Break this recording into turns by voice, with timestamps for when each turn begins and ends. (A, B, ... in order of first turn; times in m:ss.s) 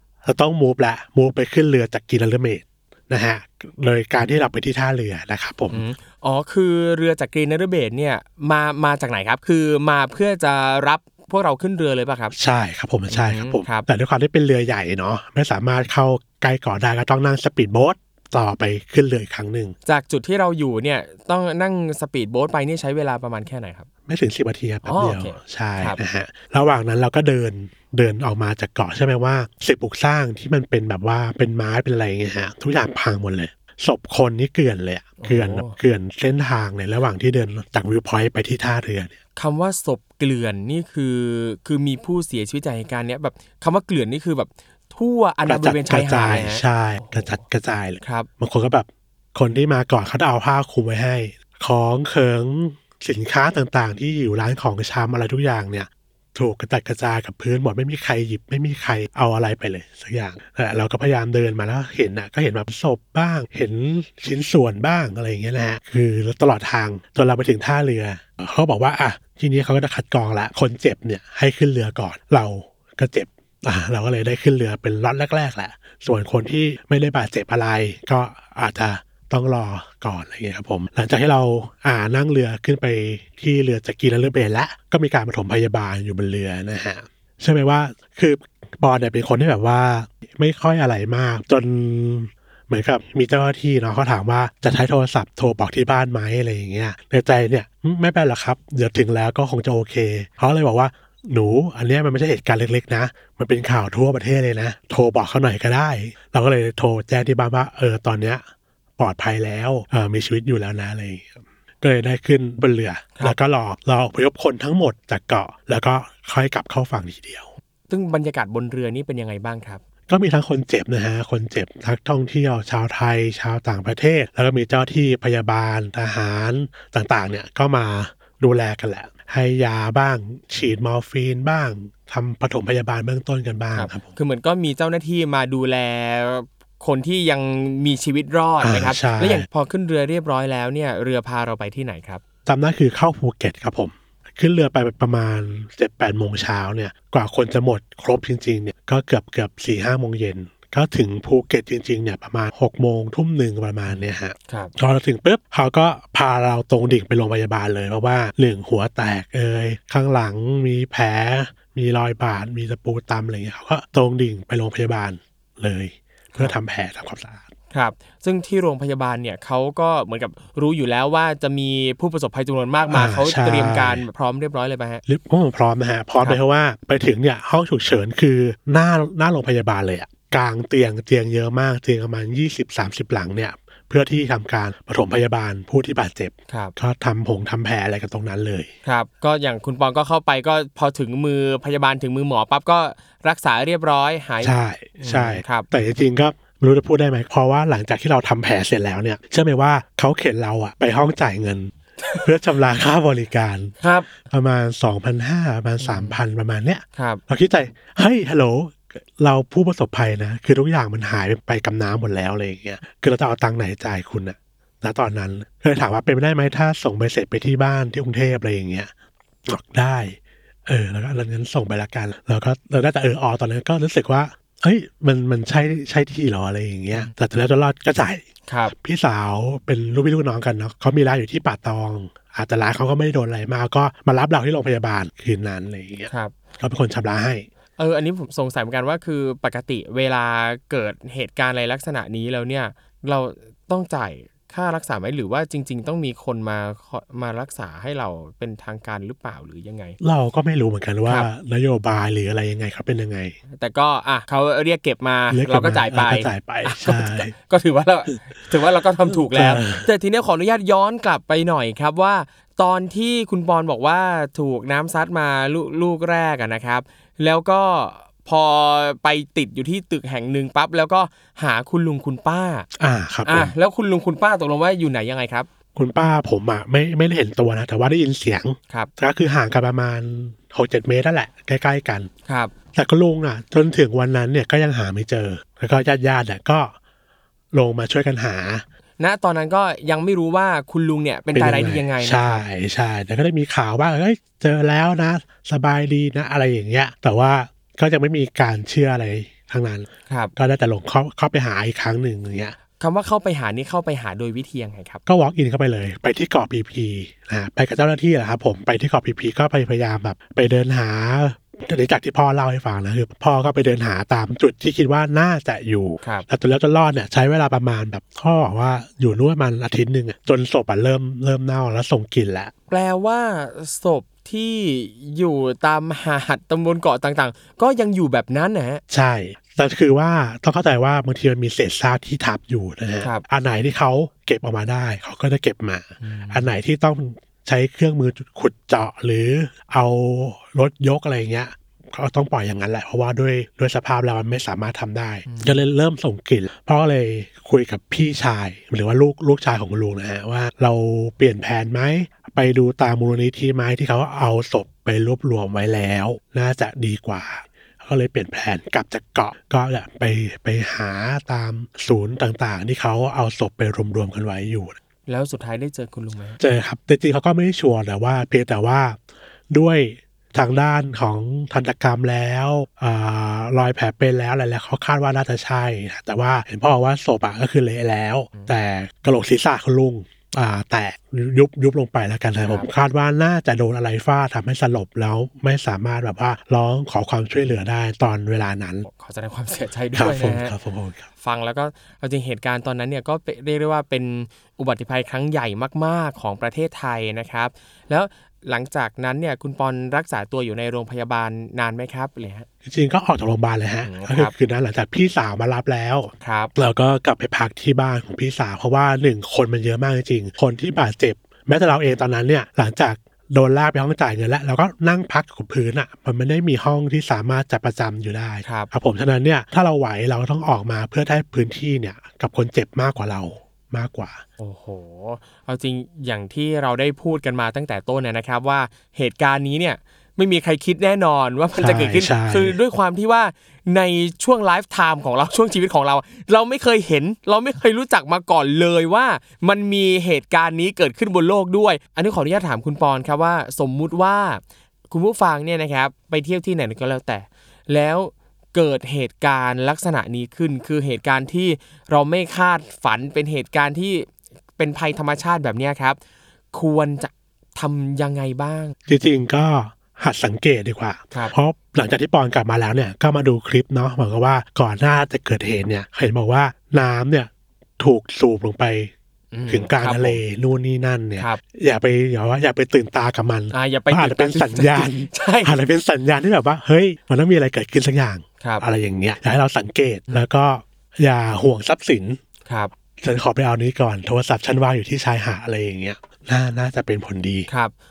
0:00.2-0:05.8 A
0:05.7-0:12.3 B
0:12.3-0:19.8 A
0:13.1-0:13.9 B
0:19.9-0:23.9 B
0:24.1-0:39.1 A
0:24.9-0:26.0 B
0:35.2-0:35.8 B
0:39.4-0:47.4 B
0:45.4-1:48.4 A
0:48.0-0:48.3 B
1:49.0-1:57.5 A
1:57.9-1:59.8 B
2:00.1-2:14.1 A
2:13.8-2:22.2 B
2:18.6-2:19.4 A
2:22.4-2:47.4 A
2:33.9-2:34.7 B
2:47.7-2:55.0 B
2:52.9-2:54.1 A
2:55.1-3:08.7 A
3:06.5-3:06.8 B
3:08.8-3:15.7 B
3:14.4-3:38.9 A
3:22.0-3:22.3 B
3:23.8-3:24.1 B
3:25.8-3:26.2 B
3:27.0-3:27.2 B
3:39.4-3:48.2 A
3:48.5-3:48.7 B
3:48.8-3:57.5 A
3:57.8-4:10.0 B
4:10.0-4:13.4 A
4:13.5-4:32.7 B
4:15.3-4:17.3 A
4:19.1-4:19.9 A
4:32.8-4:33.5 A
4:33.3-4:35.5 B
4:35.8-4:42.1 A
4:42.3-4:42.5 B
4:42.8-4:46.8 A
4:47.5-4:48.6 A
4:49.0-4:52.4 B
4:51.3-5:02.6 A
5:02.8-5:05.0 B
5:05.1-5:22.5 A
5:22.7-5:28.8 B
5:28.9-6:04.8 A
5:36.0-5:36.5 B
5:45.3-5:45.6 B
6:05.1-6:06.4 B
6:06.4-6:09.0 A
6:09.5-6:28.9 A
6:28.8-6:30.6 B
6:29.9-6:31.1 A
6:31.2-6:42.5 B
6:42.6-7:04.2 A
6:43.8-6:44.3 B
6:46.2-6:46.5 B
6:58.4-6:58.7 B
7:04.4-7:36.0 B
7:11.6-7:12.6 A
7:36.5-7:38.8 B
7:38.9-7:48.9 A
7:49.3-7:50.2 B
7:49.5-8:02.2 A
7:53.5-7:55.6 B
8:02.4-8:02.7 B
8:03.0-8:07.5 A